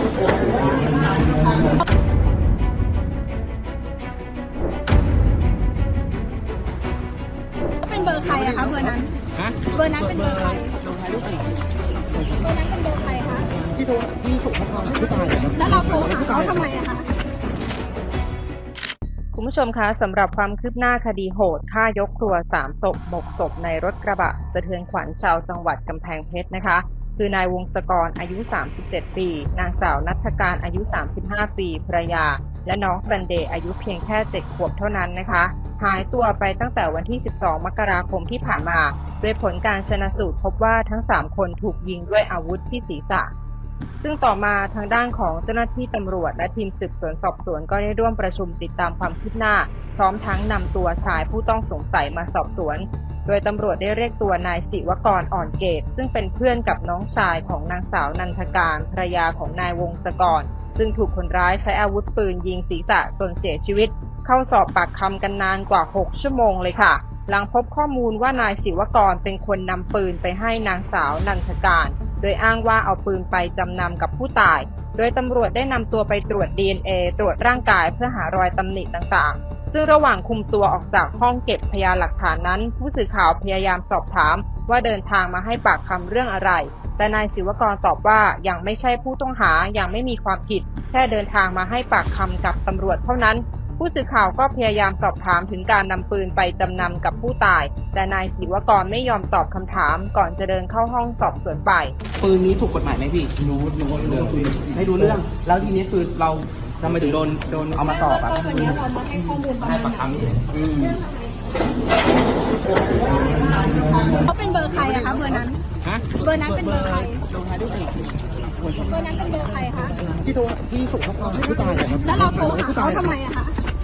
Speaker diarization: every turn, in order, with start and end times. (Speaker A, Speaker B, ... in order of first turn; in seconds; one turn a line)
Speaker A: 0.4-1.6
Speaker A: 7.8-10.8
Speaker A: 12.4-13.5
Speaker B: 13.8-15.5
Speaker A: 15.2-17.1
Speaker C: 19.3-43.3
Speaker C: 44.0-101.9
Speaker D: 102.2-103.3
Speaker D: 104.0-108.8
Speaker A: 108.0-111.3
Speaker A: 113.0-115.6
Speaker A: 116.1-117.2
Speaker A: 118.8-120.0
Speaker B: 120.3-121.9
Speaker A: 121.6-123.5